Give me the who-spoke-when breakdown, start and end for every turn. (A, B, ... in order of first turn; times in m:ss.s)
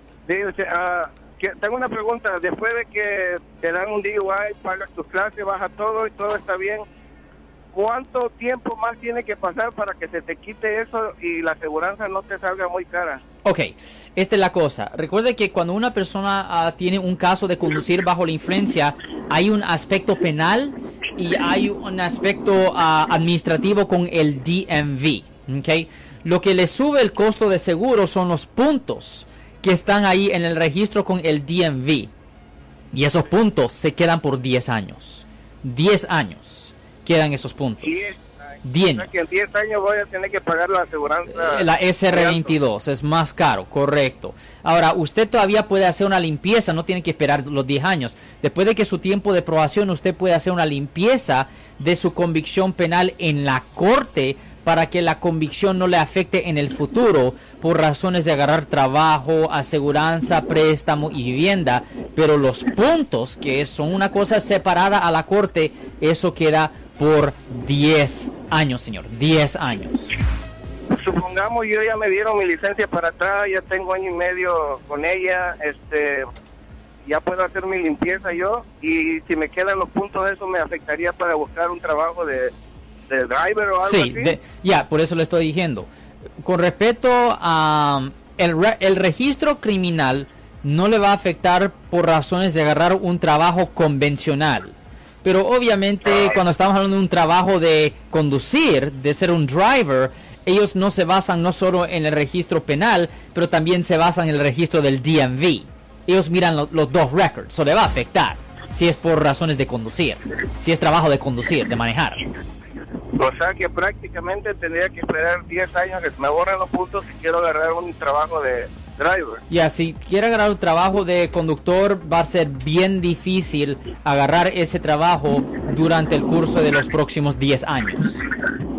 0:00.3-0:06.8 A
0:07.7-0:13.2 A
0:13.4-0:32.1 B
0:32.9-0:38.1 B
0:37.8-0:38.2 A
0:38.6-0:39.1 B
0:38.8-0:42.5 A
0:41.3-1:10.1 B
1:10.9-1:16.3 A
1:17.0-1:22.5 A
1:23.1-1:24.4 A
1:23.8-1:25.9 B
1:26.4-1:52.3 B
1:53.2-1:59.4 A
1:59.5-2:08.2 B